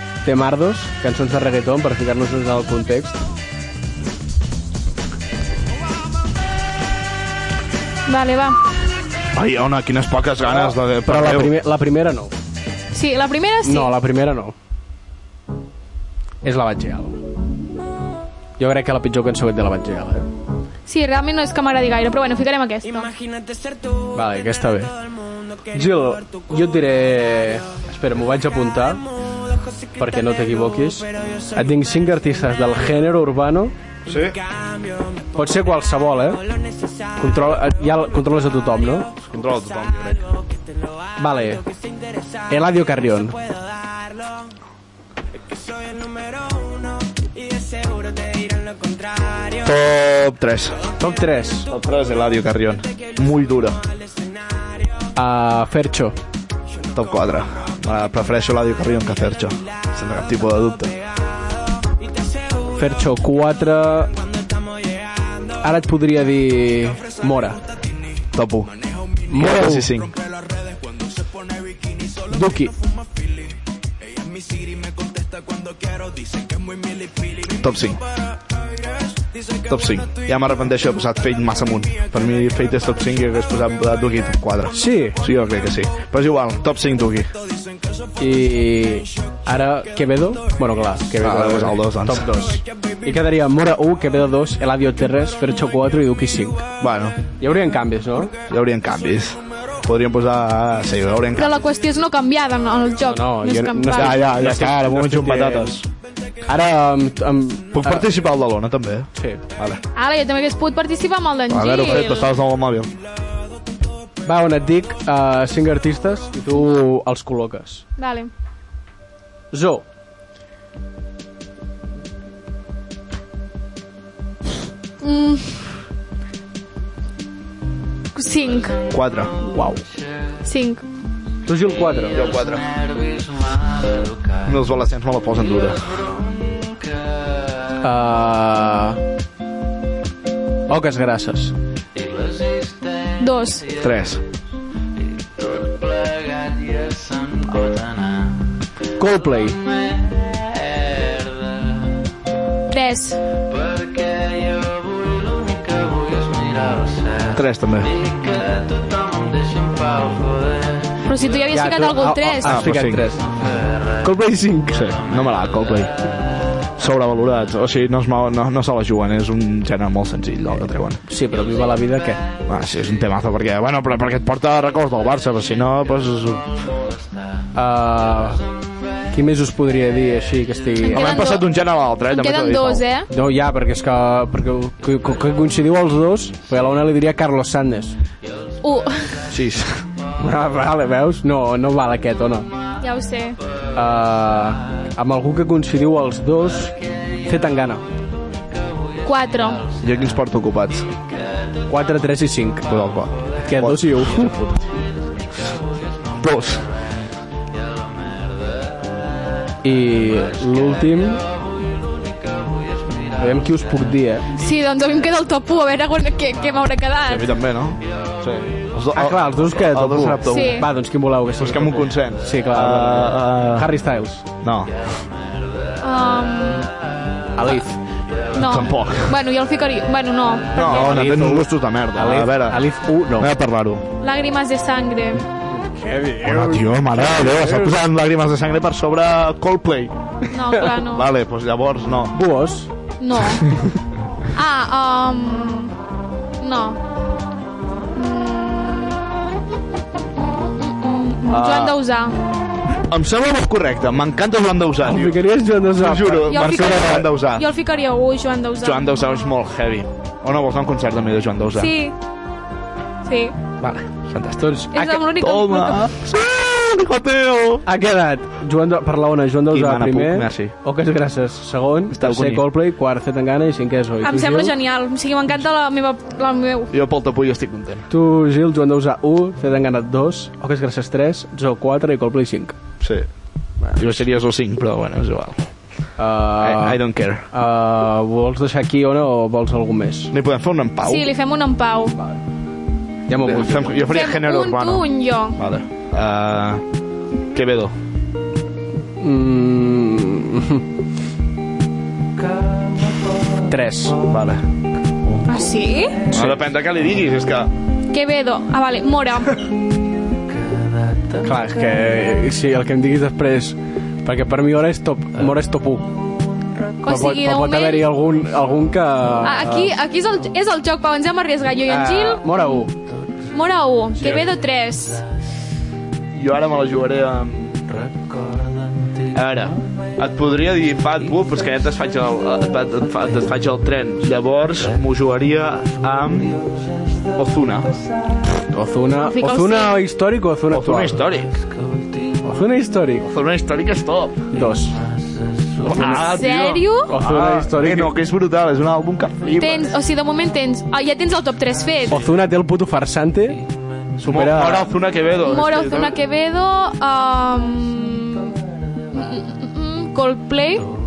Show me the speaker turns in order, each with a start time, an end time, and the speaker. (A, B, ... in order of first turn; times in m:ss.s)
0:00.2-0:03.2 A
0:08.1-0:08.6 B
0:09.3-0:11.5 C
0:10.5-0:12.3 A
0:12.9-0:13.9 B
0:13.6-0:14.5 A
0:16.4-0:17.2 A
0:18.6-0:20.2 A
0:20.9-0:23.1 B
0:24.1-0:24.9 A
0:25.7-0:29.0 A
0:30.0-0:33.7 A
0:34.0-0:34.4 C
0:35.3-0:36.4 A
0:37.2-0:39.1 A
0:39.2-0:40.3 C
0:41.2-0:41.6 A
0:42.5-0:43.4 A
0:49.6-0:50.8 C
0:51.0-0:51.7 A
0:51.7-0:53.8 C
0:55.2-0:56.2 A
0:56.9-1:01.0 C
1:02.7-1:04.1 A
1:05.6-1:07.6 A
1:08.3-1:08.7 C
1:09.3-1:09.9 A
1:09.3-1:10.2 C
1:12.3-1:12.7 A
1:17.5-1:18.0 C
1:19.6-1:27.3 C
1:24.7-1:25.2 A
1:28.2-1:36.7 A
1:31.2-1:32.3 C
1:36.8-1:37.2 C
1:37.4-1:38.3 A
1:38.4-1:41.6 C
1:41.4-1:44.3 B
1:43.1-1:45.8 A
1:43.9-1:45.8 C
1:46.5-1:48.1 A
1:47.7-1:49.8 C
1:49.1-1:49.4 A
1:50.0-1:52.3 B
1:51.5-1:52.9 C
1:54.2-1:57.8 A
1:58.0-1:58.3 B
1:59.5-1:59.8 A
2:05.0-2:05.7 B
2:08.1-2:08.8 B
2:08.9-2:09.3 C
2:09.4-2:09.8 A
2:10.4-2:10.8 B
2:11.4-2:12.2 A
2:12.1-2:12.7 C
2:14.4-2:16.0 C
2:17.8-2:19.0 A
2:20.7-2:21.5 A
2:23.2-2:23.7 B
2:23.7-2:24.2 C
2:29.0-2:29.6 A
2:32.7-2:33.2 B
2:37.3-2:38.0 C
2:41.0-2:42.6 B
2:41.5-2:43.3 A
2:42.4-2:43.1 C
2:44.0-2:44.8 A
2:44.7-2:45.9 C
2:46.8-2:51.0 C
2:51.0-2:52.2 A
2:52.4-2:56.6 C
2:57.5-2:58.4 A
2:59.1-3:01.2 A
3:00.8-3:01.5 B
3:00.9-3:02.8 C
3:02.1-3:03.1 B
3:03.1-3:08.0 A
3:08.6-3:09.2 B
3:09.3-3:09.8 C
3:10.2-3:12.5 A
3:12.8-3:13.4 B
3:13.7-3:17.8 A
3:19.0-3:19.7 B
3:19.7-3:20.9 C
3:21.7-3:22.6 A
3:22.6-3:24.5 C
3:23.4-3:24.6 A
3:26.1-3:26.6 C
3:29.6-3:31.2 A
3:33.1-3:34.3 A
3:34.3-3:37.3 B
3:37.0-3:40.6 C
3:38.9-3:44.2 A
3:40.3-3:40.7 B
3:41.4-3:43.7 C
3:44.4-3:44.7 C
3:45.8-3:46.7 B
3:47.4-3:47.8 A
3:48.3-3:49.2 C
3:48.3-3:51.1 B
3:50.5-3:52.6 C
3:50.6-3:53.3 A
3:53.2-3:53.8 C
3:54.0-3:55.2 B
3:55.4-3:57.8 A
3:56.2-4:00.0 C
4:00.3-4:01.1 B
4:00.8-4:02.2 C
4:02.1-4:02.7 A
4:03.0-4:03.5 B
4:04.3-4:05.7 B
4:06.4-4:06.8 B
4:07.9-4:09.0 B
4:10.6-4:12.2 B
4:11.3-4:11.8 C
4:12.8-4:15.2 C
4:14.8-4:17.1 A
4:15.7-4:17.5 C
4:16.3-4:19.2 B
4:18.6-4:21.7 C
4:21.5-4:21.9 B
4:23.0-4:23.4 B
4:23.6-4:25.0 A
4:24.1-4:27.6 C
4:24.7-4:25.9 B
4:27.6-4:34.5 A
4:29.5-4:30.5 C
4:31.9-4:32.4 C
4:34.0-4:36.7 B
4:36.7-4:37.9 C
4:37.9-4:42.5 A
4:42.8-4:43.1 C
4:43.7-4:45.4 C
4:46.0-4:50.1 A
4:46.4-4:47.2 C
4:50.1-4:51.1 C
4:50.8-4:51.9 B
4:53.1-4:53.8 A
4:53.2-4:56.6 C
4:53.8-4:55.4 B
4:57.3-4:57.7 C
4:59.0-5:00.6 A
5:03.4-5:04.0 A
5:04.0-5:04.4 C
5:05.3-5:06.1 B
5:06.1-5:07.5 C
5:07.9-5:09.4 B
5:11.2-5:16.0 A
5:16.8-5:17.9 B
5:16.8-5:19.7 A
5:19.2-5:22.5 B
5:21.7-5:22.7 A
5:23.3-5:25.0 B
5:26.1-5:27.9 C
5:29.1-5:36.4 C
5:37.1-5:37.7 C
5:38.5-5:41.0 A
5:39.0-5:39.8 B
5:40.5-5:41.3 C
5:42.2-5:43.1 A
5:43.0-5:44.3 C
5:44.3-5:44.8 A
5:45.6-5:49.7 C
5:45.7-5:46.0 A
5:45.7-5:46.9 B
5:46.9-5:47.9 A
5:49.3-5:52.0 B
5:51.9-5:53.4 A
5:54.0-5:56.0 C
5:54.0-5:54.7 A
5:55.2-5:58.4 B
5:58.9-6:00.7 B